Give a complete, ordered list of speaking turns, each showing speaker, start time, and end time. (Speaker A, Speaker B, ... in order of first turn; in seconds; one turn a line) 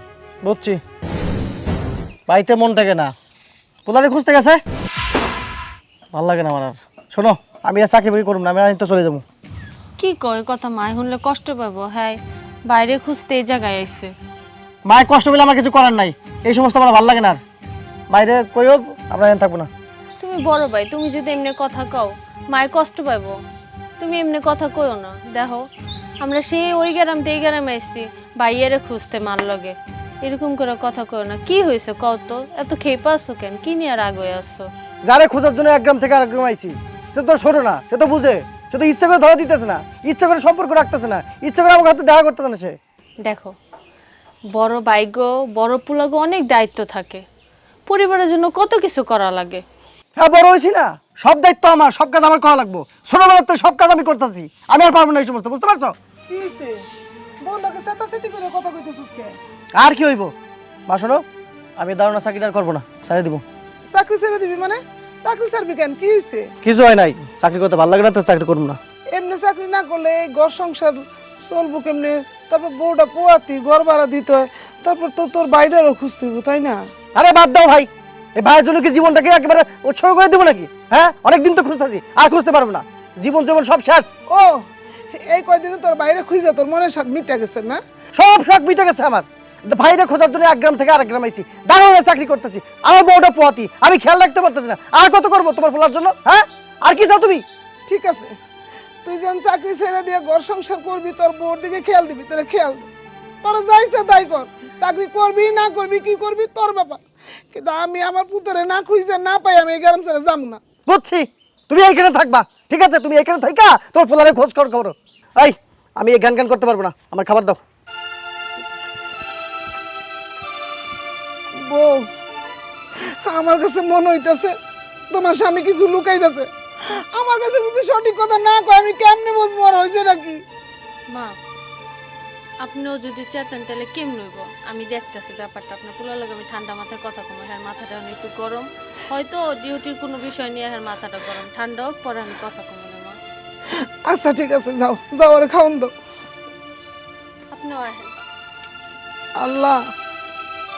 Speaker A: 0.4-0.8
Speaker A: 2.3-3.1
Speaker A: 3.9-4.6
Speaker A: 6.1-9.2
Speaker B: 10.0-14.1
Speaker A: 14.9-17.4
Speaker A: 18.1-19.7
Speaker B: 20.2-23.4
Speaker B: 24.0-25.6
Speaker B: 26.2-34.7
Speaker A: 35.0-42.8
Speaker B: 43.2-43.5
Speaker B: 44.5-47.2
Speaker B: 47.9-49.6
Speaker A: 50.1-55.9
Speaker C: 56.3-56.8
Speaker C: 57.4-59.4
Speaker A: 59.8-60.3
Speaker A: 60.9-61.2
Speaker A: 61.8-63.4
Speaker C: 63.9-66.5
Speaker A: 66.6-68.8
Speaker C: 69.1-76.8
Speaker A: 77.1-84.1
Speaker C: 84.3-87.8
Speaker A: 88.1-97.4
Speaker C: 97.9-98.3
Speaker C: 99.0-102.9
Speaker C: 103.4-110.6
Speaker A: 110.9-117.6
Speaker C: 121.5-122.1
Speaker C: 123.0-124.5
Speaker C: 125.1-130.4
Speaker B: 132.6-143.2
Speaker C: 144.1-145.9
Speaker B: 147.5-148.1
Speaker C: 149.4-149.8